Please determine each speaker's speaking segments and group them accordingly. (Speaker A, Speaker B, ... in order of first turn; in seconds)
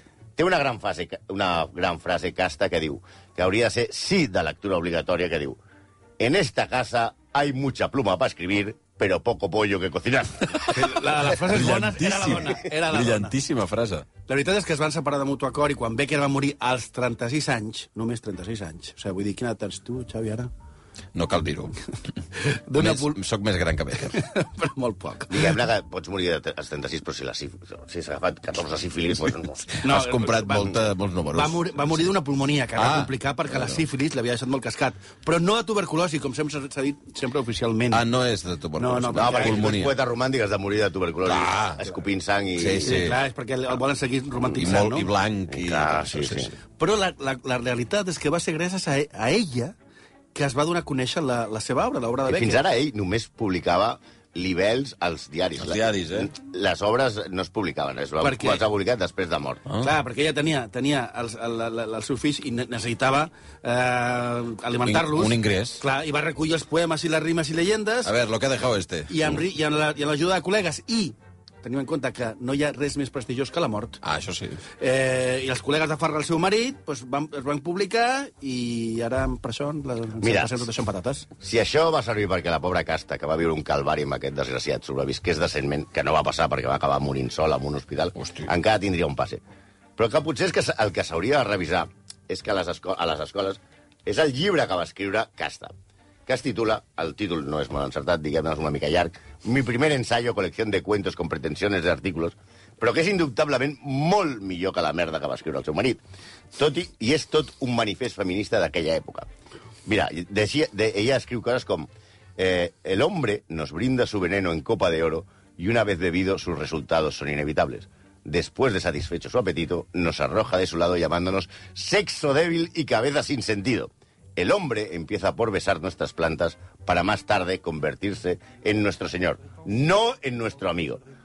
Speaker A: 0.4-5.6, 6.2-10.7, 25.3-29.8, 39.1-43.1, 45.5-46.5, 52.3-59.6, 80.2-80.7, 81.4-89.4, 90.0-95.7, 96.3-106.0, 106.5-109.3, 109.9-131.0
Speaker B: 10.7-13.3, 14.3-20.5, 22.4-23.2, 24.1-25.6, 29.8-30.8, 31.3-38.0, 38.8-39.7, 42.8-45.1, 46.8-49.8, 50.3-52.6, 58.2-58.6, 59.8-68.1, 69.1-74.0, 74.8-81.3
Speaker C: 11.4-14.1, 21.1-21.8, 22.8-24.2, 29.8-32.0, 32.8-33.8, 37.9-39.9, 41.3-41.8, 42.6-43.2, 44.5-46.5, 55.6-56.3, 64.9-65.8, 68.0-69.4, 74.0-74.6, 88.2-88.5